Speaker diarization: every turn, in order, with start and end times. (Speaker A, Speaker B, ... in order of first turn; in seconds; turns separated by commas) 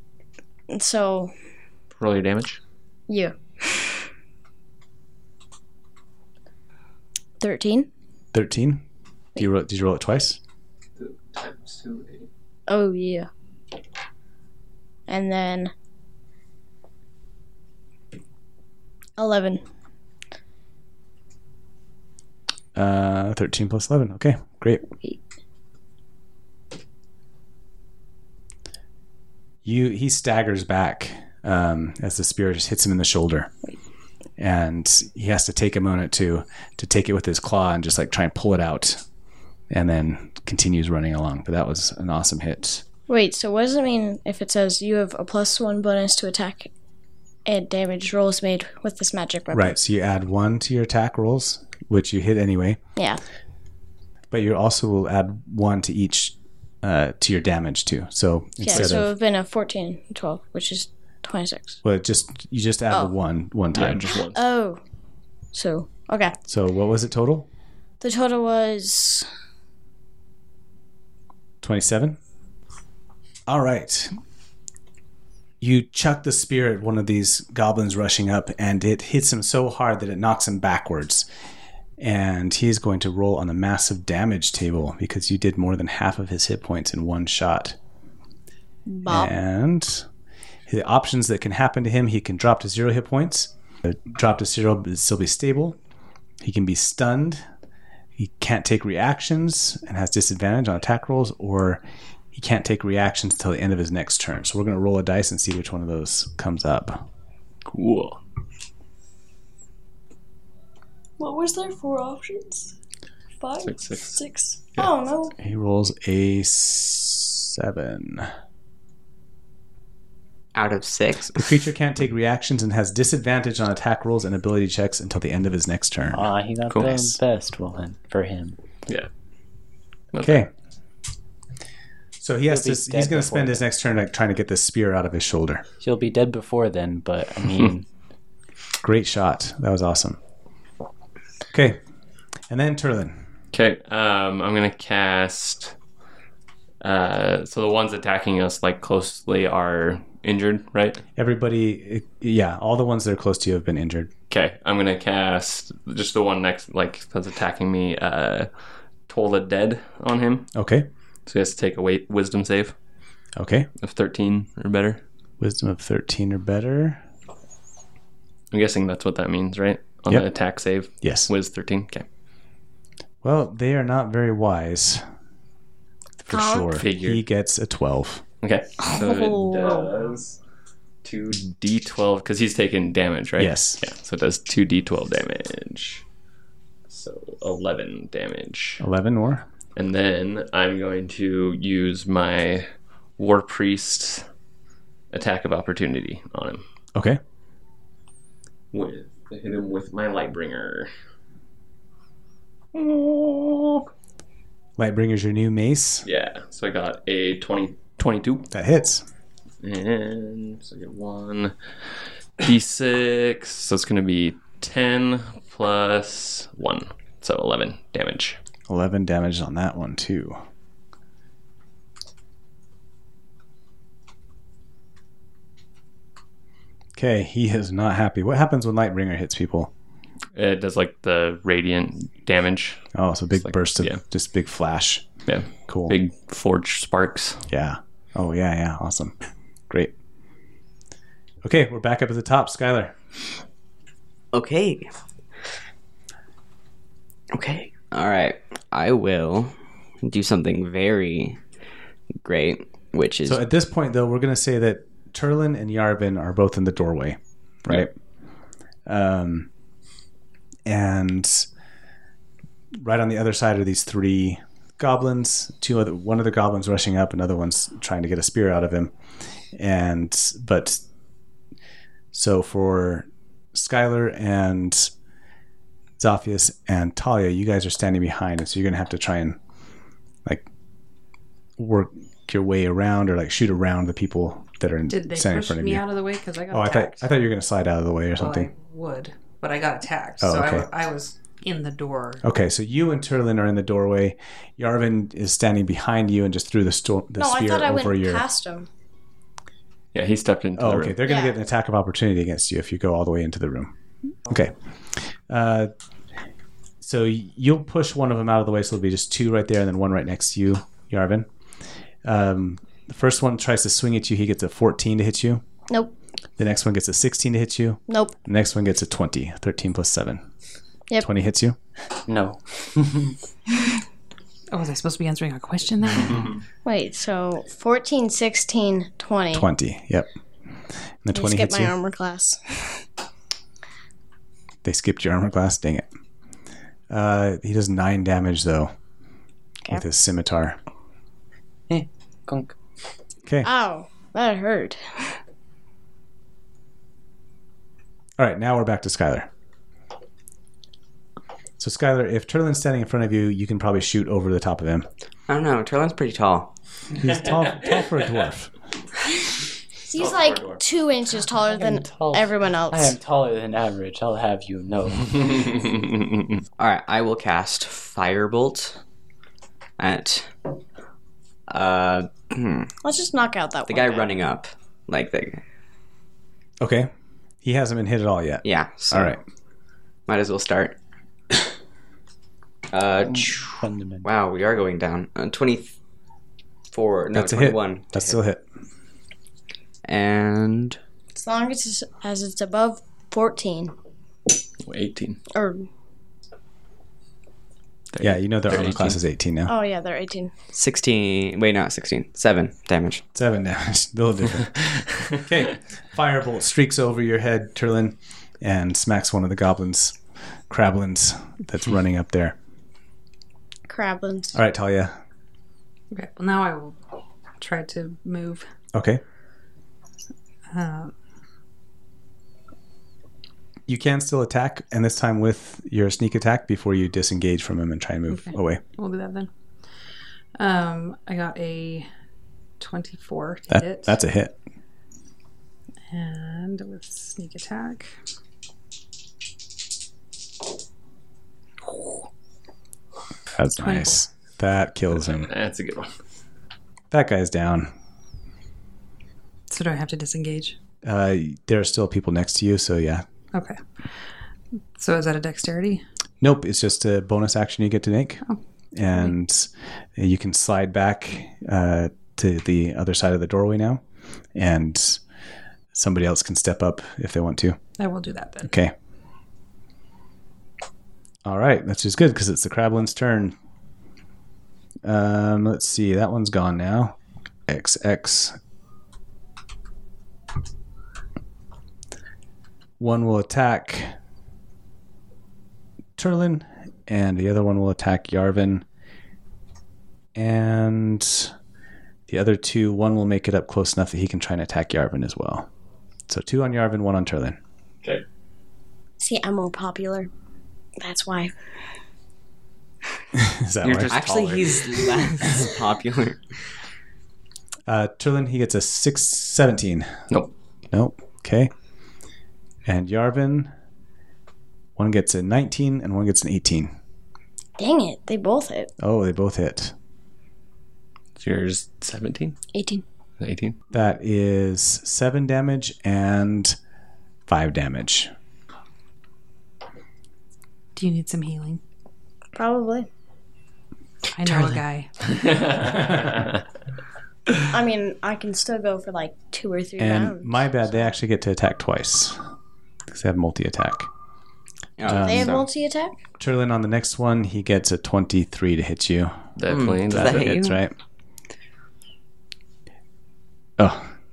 Speaker A: 0.7-1.3, Speaker B: 2.0-2.6, Speaker A: 3.1-4.0, Speaker A: 7.4-7.9, Speaker C: 8.3-8.8, Speaker C: 9.4-10.4, Speaker B: 11.0-12.3, Speaker A: 12.7-13.3, Speaker A: 15.1-15.7, Speaker A: 19.2-19.6, Speaker C: 22.8-24.8, Speaker C: 29.6-33.5, Speaker C: 34.4-39.0, Speaker C: 39.7-42.8, Speaker A: 43.1-46.7, Speaker A: 47.5-49.8, Speaker C: 49.5-52.8, Speaker A: 53.0-53.2, Speaker C: 54.3-59.1, Speaker A: 58.6-61.8, Speaker C: 61.8-64.1, Speaker B: 63.7-64.4, Speaker A: 64.2-64.8, Speaker A: 65.5-66.4, Speaker C: 66.5-67.5, Speaker A: 68.0-69.3, Speaker C: 71.6-72.2, Speaker C: 73.5-74.2, Speaker C: 75.6-81.3, Speaker C: 82.0-87.8, Speaker A: 88.9-89.3, Speaker C: 89.1-90.1, Speaker C: 90.7-95.8, Speaker C: 96.4-97.4, Speaker C: 98.2-101.8, Speaker C: 102.3-107.0, Speaker B: 107.7-108.2, Speaker A: 111.2-112.7, Speaker A: 113.4-115.4, Speaker B: 113.6-114.2, Speaker C: 115.4-118.3, Speaker D: 120.5-121.5, Speaker C: 121.4-126.3, Speaker E: 126.1-128.6, Speaker B: 126.7-127.0, Speaker B: 130.1-130.4, Speaker C: 130.2-130.5, Speaker C: 132.2-135.6, Speaker E: 132.5-133.7, Speaker E: 135.8-137.9, Speaker C: 138.8-140.2, Speaker C: 141.5-141.8, Speaker C: 142.5-143.2, Speaker B: 143.5-145.8, Speaker B: 146.8-151.0, Speaker C: 151.2-154.1, Speaker B: 154.3-158.5, Speaker B: 159.1-160.5, Speaker C: 160.6-160.9, Speaker B: 161.3-162.8, Speaker C: 163.4-163.7, Speaker B: 163.8-165.0, Speaker C: 165.4-167.0, Speaker B: 168.5-172.1, Speaker C: 171.0-171.3, Speaker C: 173.2-175.1, Speaker C: 176.2-178.2, Speaker A: 176.3-176.7, Speaker B: 176.7-177.2, Speaker B: 178.4-180.4, Speaker A: 178.8-180.0, Speaker B: 181.0-186.0, Speaker C: 183.4-183.8, Speaker B: 186.9-188.8, Speaker C: 188.8-189.5, Speaker B: 189.8-194.3, Speaker B: 195.1-196.6, Speaker B: 198.7-200.9, Speaker B: 202.8-203.8, Speaker C: 204.8-206.1, Speaker B: 206.0-208.5, Speaker C: 208.5-209.1, Speaker B: 209.6-211.6, Speaker B: 212.4-218.4, Speaker C: 218.7-220.4, Speaker C: 227.0-229.7, Speaker B: 230.3-232.8, Speaker C: 232.9-235.1, Speaker B: 233.4-234.0, Speaker B: 235.3-237.5, Speaker C: 235.7-236.0, Speaker C: 237.5-239.2, Speaker C: 241.4-242.9, Speaker D: 244.3-244.9, Speaker D: 247.3-251.4, Speaker D: 252.2-253.4, Speaker C: 253.3-257.9, Speaker C: 258.9-259.5, Speaker C: 260.7-261.5, Speaker C: 262.8-268.9, Speaker C: 269.6-270.8, Speaker C: 272.1-274.9, Speaker C: 276.0-279.4, Speaker C: 281.6-285.9, Speaker F: 284.9-287.1, Speaker C: 286.5-288.5, Speaker F: 288.2-292.2, Speaker C: 290.2-290.7, Speaker C: 292.2-298.2, Speaker A: 297.2-298.7, Speaker B: 299.9-301.0, Speaker C: 300.6-303.7, Speaker A: 301.1-301.4, Speaker C: 304.3-305.7, Speaker C: 306.8-311.3, Speaker C: 312.1-315.4, Speaker C: 316.4-320.2, Speaker A: 317.9-318.1, Speaker C: 321.0-321.6, Speaker E: 322.1-323.2, Speaker F: 324.5-326.3, Speaker A: 326.6-329.5, Speaker C: 329.3-330.1, Speaker C: 331.0-331.7, Speaker A: 331.1-332.8, Speaker C: 334.6-335.9, Speaker C: 336.9-338.7, Speaker C: 339.7-340.6, Speaker E: 341.7-342.6, Speaker A: 343.4-345.2, Speaker C: 348.2-349.3, Speaker C: 351.6-354.9, Speaker D: 355.3-356.5, Speaker C: 357.0-358.5, Speaker B: 357.1-358.1, Speaker A: 359.8-362.9, Speaker B: 360.0-360.6, Speaker E: 361.4-365.4, Speaker B: 365.4-365.8, Speaker D: 366.6-368.8, Speaker D: 369.8-370.3, Speaker D: 371.5-372.7, Speaker A: 372.8-374.1, Speaker D: 373.7-375.4, Speaker C: 376.6-376.9, Speaker C: 377.4-379.2, Speaker D: 378.4-379.1, Speaker D: 380.1-380.8, Speaker D: 382.7-385.8, Speaker E: 383.1-384.1, Speaker D: 386.7-388.2, Speaker C: 387.1-388.4, Speaker D: 389.9-390.8, Speaker A: 391.1-393.7, Speaker B: 394.6-395.2, Speaker A: 395.3-395.7, Speaker B: 397.9-399.0, Speaker C: 398.0-399.5, Speaker A: 399.5-400.3, Speaker D: 400.5-403.0, Speaker C: 403.1-410.0, Speaker C: 410.5-412.4, Speaker A: 413.7-414.4, Speaker C: 414.3-415.0, Speaker F: 415.9-416.8, Speaker F: 417.4-418.5, Speaker C: 418.7-419.0, Speaker F: 420.5-420.9, Speaker C: 423.7-428.6, Speaker F: 428.1-429.3, Speaker F: 430.4-431.9, Speaker F: 432.6-433.9, Speaker C: 433.5-434.4, Speaker F: 435.9-437.9, Speaker C: 443.4-445.3, Speaker F: 443.6-444.0, Speaker B: 444.9-445.9, Speaker C: 446.9-447.7, Speaker F: 449.5-450.6, Speaker C: 450.8-453.1, Speaker F: 453.3-453.6, Speaker F: 454.8-455.8, Speaker C: 456.2-458.2, Speaker C: 458.7-463.8, Speaker C: 464.4-465.0, Speaker C: 465.7-467.6, Speaker F: 467.8-468.5, Speaker C: 468.4-468.7, Speaker C: 471.2-473.4, Speaker C: 474.8-476.9, Speaker C: 477.5-478.4, Speaker C: 482.8-483.9, Speaker C: 486.0-488.6, Speaker C: 490.1-491.3, Speaker C: 492.1-495.5, Speaker C: 496.1-497.4, Speaker A: 499.0-500.1, Speaker A: 500.8-501.3, Speaker C: 503.1-504.0, Speaker B: 503.6-504.9, Speaker D: 503.9-506.2, Speaker C: 507.7-510.0, Speaker C: 510.7-511.5, Speaker C: 512.7-513.5, Speaker C: 514.8-516.8, Speaker A: 517.6-518.7, Speaker C: 518.8-519.7, Speaker B: 521.2-522.4, Speaker A: 522.5-522.8, Speaker B: 523.2-523.6, Speaker C: 523.7-526.6, Speaker C: 527.3-528.1, Speaker F: 530.8-531.6, Speaker A: 532.4-532.9, Speaker F: 534.1-534.9, Speaker B: 535.0-536.4, Speaker A: 537.5-540.4, Speaker C: 539.8-542.2, Speaker C: 542.9-543.9, Speaker D: 544.8-545.5, Speaker C: 544.9-545.4, Speaker A: 544.9-546.0, Speaker C: 546.2-549.2, Speaker B: 549.4-550.5, Speaker D: 549.5-550.6, Speaker C: 549.9-550.7, Speaker C: 553.6-553.9